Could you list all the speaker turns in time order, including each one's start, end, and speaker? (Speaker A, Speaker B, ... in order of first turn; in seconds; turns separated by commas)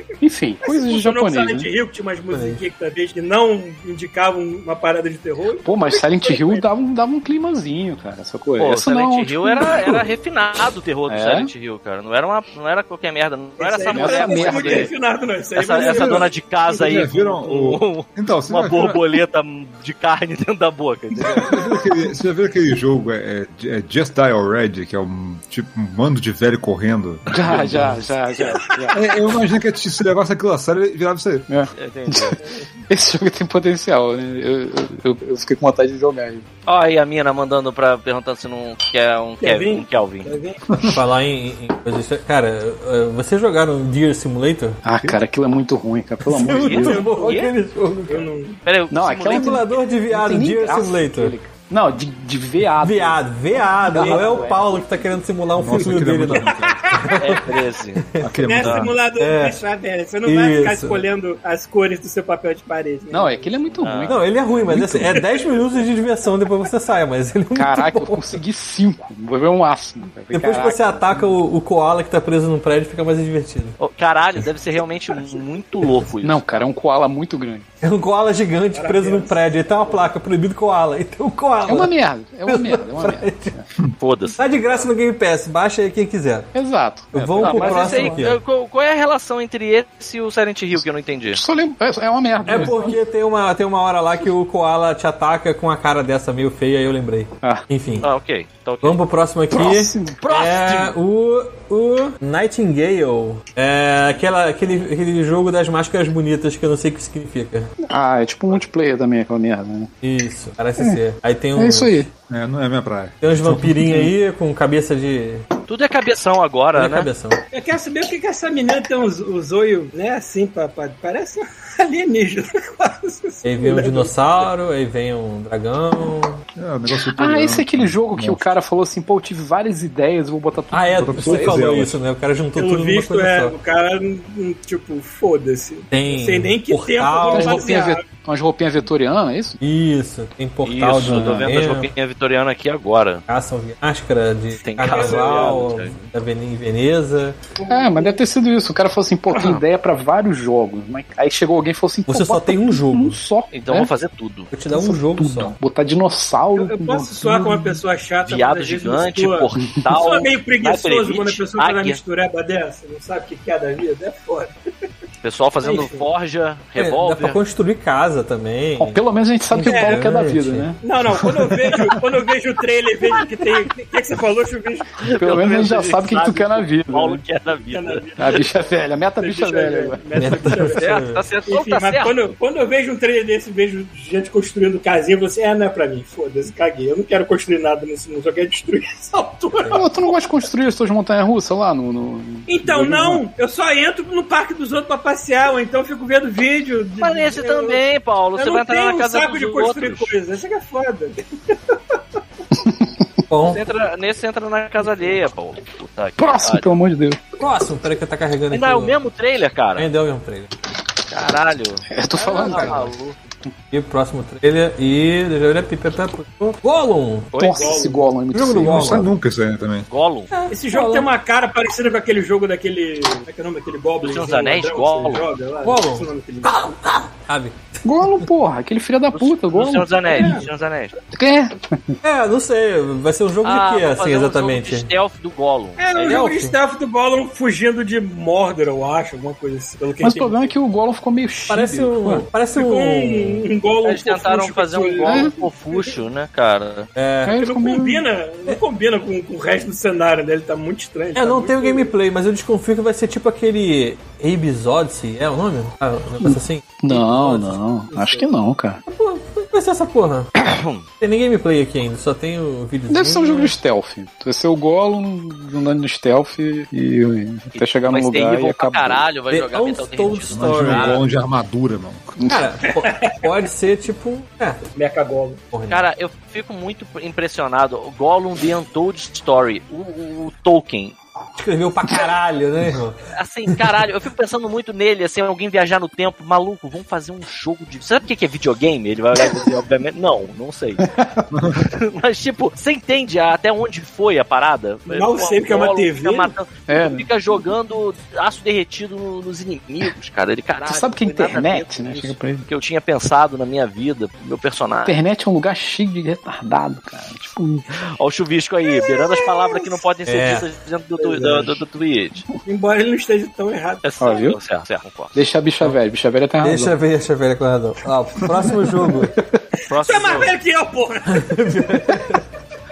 Speaker A: 0.2-1.7, Speaker B: 0.6-6.6, Speaker C: 2.3-2.6, Speaker A: 5.6-10.0, Speaker D: 8.6-14.9, Speaker A: 11.1-11.5, Speaker B: 13.6-16.8, Speaker A: 13.9-14.9, Speaker D: 15.6-21.6, Speaker E: 15.8-19.1, Speaker E: 21.2-28.1, Speaker A: 21.3-21.8, Speaker A: 27.3-29.0, Speaker D: 28.3-28.8, Speaker E: 28.9-31.5, Speaker A: 31.5-36.4, Speaker D: 31.7-32.4, Speaker B: 32.4-32.7, Speaker D: 36.6-40.3, Speaker B: 39.4-40.6, Speaker E: 40.7-41.0, Speaker C: 40.8-44.8, Speaker A: 44.8-47.0, Speaker C: 46.2-48.3, Speaker D: 46.5-47.5, Speaker B: 46.8-47.4, Speaker B: 48.1-48.6, Speaker D: 48.6-49.7, Speaker A: 48.9-55.0, Speaker C: 49.3-51.3, Speaker C: 52.8-58.3, Speaker E: 55.5-57.0, Speaker B: 56.6-57.3, Speaker D: 57.1-58.0, Speaker E: 58.2-59.0, Speaker B: 58.4-63.8, Speaker D: 58.6-58.9, Speaker C: 59.2-59.6, Speaker C: 60.2-61.0, Speaker A: 63.1-65.0, Speaker D: 63.8-64.2, Speaker C: 64.1-68.4, Speaker E: 64.7-65.1, Speaker A: 67.5-71.4, Speaker C: 70.3-73.8, Speaker D: 73.8-76.7, Speaker A: 76.2-77.6, Speaker C: 77.8-81.9, Speaker B: 78.7-80.1, Speaker A: 81.7-83.6, Speaker C: 82.5-83.5, Speaker D: 84.0-84.8, Speaker C: 84.4-86.5, Speaker A: 86.5-88.2, Speaker C: 87.1-88.4, Speaker D: 87.4-91.4, Speaker A: 91.3-93.0, Speaker C: 92.4-98.1, Speaker D: 98.0-99.0, Speaker C: 98.8-107.7, Speaker A: 99.5-100.2, Speaker D: 100.2-100.9, Speaker A: 107.9-109.9, Speaker C: 110.0-112.1, Speaker A: 111.5-112.1, Speaker E: 112.3-113.8, Speaker C: 113.2-115.4, Speaker A: 113.8-114.1, Speaker D: 115.7-117.1, Speaker C: 116.7-117.4, Speaker B: 117.5-124.5, Speaker C: 123.4-126.4, Speaker E: 126.6-128.5, Speaker A: 127.0-131.6, Speaker C: 130.7-133.5, Speaker E: 131.0-132.0, Speaker B: 132.6-138.0, Speaker C: 135.9-137.7, Speaker A: 137.3-139.6, Speaker C: 139.6-141.9, Speaker D: 140.6-143.2, Speaker C: 143.3-147.3, Speaker D: 144.5-146.0, Speaker B: 144.8-145.7, Speaker B: 147.6-148.2, Speaker A: 147.7-153.9, Speaker D: 149.3-149.6, Speaker C: 152.1-153.2, Speaker D: 153.5-154.5, Speaker C: 154.5-155.5, Speaker A: 154.7-157.8, Speaker B: 156.5-164.5, Speaker D: 158.2-162.0, Speaker D: 165.2-167.4, Speaker B: 165.6-166.0, Speaker C: 166.8-169.0, Speaker A: 168.8-171.6, Speaker C: 169.5-170.7, Speaker B: 169.7-170.1, Speaker B: 170.8-175.0, Speaker D: 175.0-178.5, Speaker A: 175.1-177.2, Speaker B: 177.7-178.3, Speaker A: 178.2-180.0, Speaker B: 179.2-189.9, Speaker C: 180.2-181.2, Speaker D: 180.8-182.2, Speaker C: 189.6-189.8, Speaker A: 189.7-193.2, Speaker B: 192.5-197.8, Speaker D: 197.0-200.1, Speaker B: 198.3-202.0, Speaker A: 202.5-203.2, Speaker C: 203.3-203.6, Speaker D: 203.4-206.7, Speaker A: 206.2-207.2, Speaker C: 207.4-208.9, Speaker D: 208.5-209.9, Speaker C: 209.8-210.5, Speaker D: 211.1-213.2, Speaker A: 211.9-212.9, Speaker C: 212.3-212.9, Speaker C: 213.7-217.3, Speaker D: 217.3-217.8, Speaker A: 217.3-219.1, Speaker B: 217.5-218.1, Speaker C: 218.3-219.1, Speaker E: 218.6-219.9, Speaker D: 219.9-220.3, Speaker C: 220.3-221.1, Speaker B: 220.5-226.7, Speaker D: 224.0-225.2, Speaker C: 225.6-228.3, Speaker A: 227.8-230.3, Speaker D: 229.1-231.0, Speaker B: 230.1-230.5, Speaker A: 231.1-232.0, Speaker C: 232.0-234.9, Speaker D: 233.4-236.2, Speaker B: 235.8-240.4, Speaker C: 236.0-236.6, Speaker A: 240.0-242.3, Speaker C: 241.5-243.4, Speaker B: 242.5-245.9, Speaker D: 243.8-246.9, Speaker A: 245.0-245.3, Speaker C: 246.9-247.4, Speaker A: 247.2-248.1, Speaker B: 247.4-251.9, Speaker C: 251.1-257.6, Speaker A: 256.2-258.8, Speaker B: 257.9-258.3, Speaker C: 258.9-260.3, Speaker D: 260.4-260.8, Speaker C: 261.0-263.5, Speaker A: 262.9-269.1, Speaker D: 267.5-271.0, Speaker C: 269.3-271.0, Speaker E: 270.3-272.3, Speaker A: 272.2-272.4, Speaker C: 272.3-274.6, Speaker B: 272.7-273.3, Speaker B: 274.8-275.4, Speaker C: 275.5-275.9, Speaker D: 275.7-280.9, Speaker C: 281.4-283.0, Speaker D: 283.1-290.9, Speaker A: 290.8-291.1, Speaker E: 291.3-291.6, Speaker D: 291.5-305.0, Speaker B: 294.9-296.3, Speaker A: 296.7-297.4, Speaker A: 300.6-302.4, Speaker A: 304.9-307.6, Speaker D: 307.7-312.2, Speaker C: 310.1-310.4, Speaker A: 311.1-311.5, Speaker B: 312.4-314.1, Speaker D: 313.8-315.1, Speaker A: 314.0-314.4, Speaker A: 315.1-316.8, Speaker C: 316.4-319.1, Speaker A: 318.8-319.4, Speaker D: 319.7-320.3, Speaker B: 319.7-321.4, Speaker C: 321.1-322.2